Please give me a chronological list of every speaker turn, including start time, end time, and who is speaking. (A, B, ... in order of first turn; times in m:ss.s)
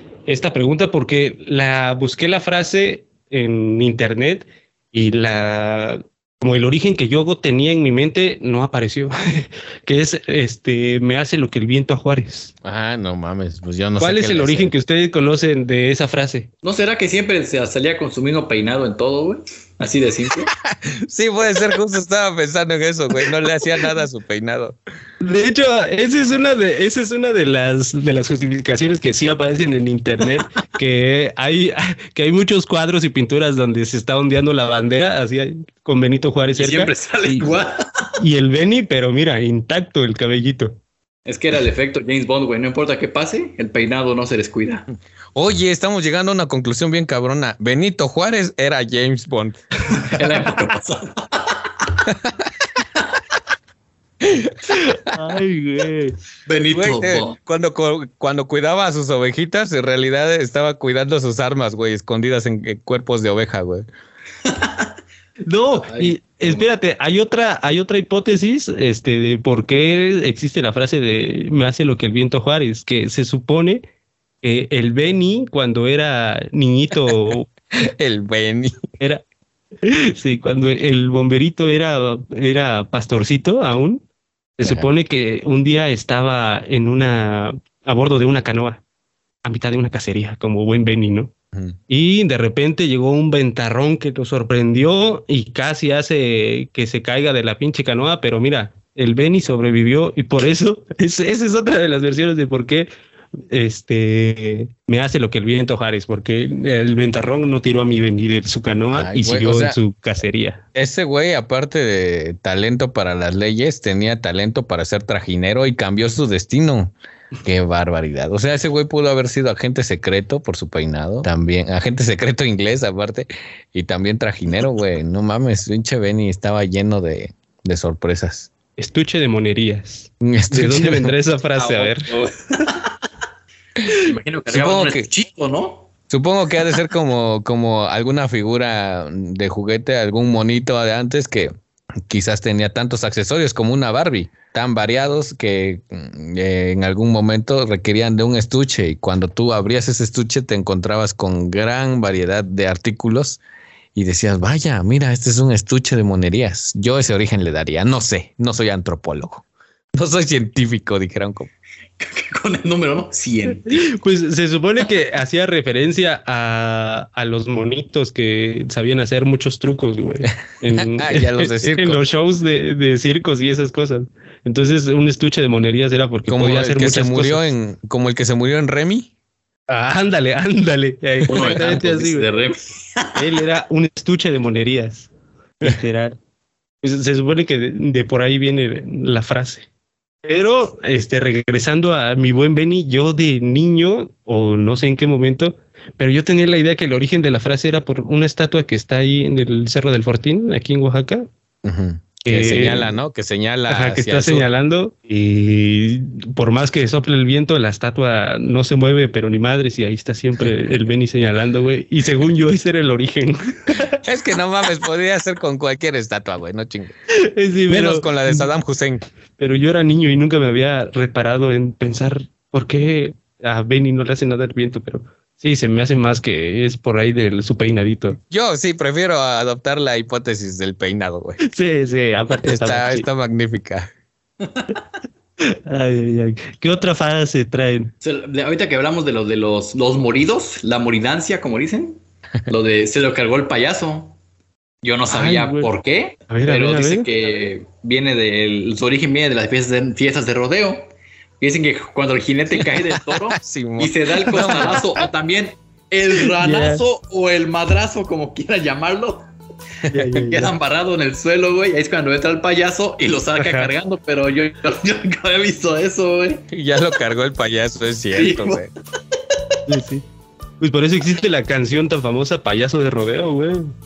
0:00.2-0:12.5 A
0:12.6-0:14.7 B
0:14.0-0:16.5 A
0:16.6-0:20.5 C
0:20.6-0:24.8 B
0:25.2-0:37.6 A
0:36.6-0:37.8 C
0:38.2-0:40.8 A
0:41.2-0:44.9 C
0:45.3-0:49.6 B
0:50.0-0:52.0 C
0:54.2-0:54.6 B
0:54.7-0:56.2 A
0:56.4-0:57.4 C
0:56.7-1:03.8 B
1:04.4-1:04.9 C
1:05.4-1:13.8 A
1:05.7-1:06.6 C
1:14.4-1:17.5 A
1:17.7-1:18.8 B
1:19.8-1:24.0 A
1:24.6-1:28.8 A
1:29.4-1:31.3 A
1:31.9-1:42.9 A
1:43.5-1:50.6 A
1:48.9-1:49.8 B
1:50.7-2:08.5 B
2:08.8-2:12.1 A
2:10.2-2:11.1 B
2:11.6-2:12.8 C
2:14.0-2:15.9 C
2:14.5-2:15.0 B
2:16.1-2:21.5 B
2:22.1-2:33.4 B
2:33.9-2:39.4 B
2:39.9-2:41.5 B
2:42.0-2:43.8 C
2:43.7-2:57.5 A
2:50.7-2:52.0 B
2:56.3-2:59.1 B
2:59.7-3:02.2 A
3:01.3-3:03.1 C
3:03.1-3:05.1 A
3:05.6-3:06.2 A
3:06.8-3:09.6 A
3:10.2-3:21.3 A
3:21.6-3:24.5 B
3:22.2-3:23.0 A
3:23.7-3:34.0 A
3:34.0-3:36.9 B
3:37.2-3:38.5 A
3:37.7-3:39.0 B
3:39.4-3:48.2 A
3:48.2-3:51.4 B
3:51.4-3:53.1 A
3:52.4-3:53.9 B
3:54.4-3:54.7 C
3:55.7-3:57.9 A
3:58.0-4:04.2 C
4:04.8-4:19.3 C
4:05.1-4:05.7 A
4:06.3-4:07.1 A
4:13.3-4:14.8 B
4:16.4-4:16.8 A
4:19.9-4:20.5 A
4:20.1-4:26.4 C
4:23.4-4:23.7 A
4:26.5-4:28.7 B
4:28.2-4:28.6 C
4:29.7-4:30.0 A
4:30.6-4:33.7 A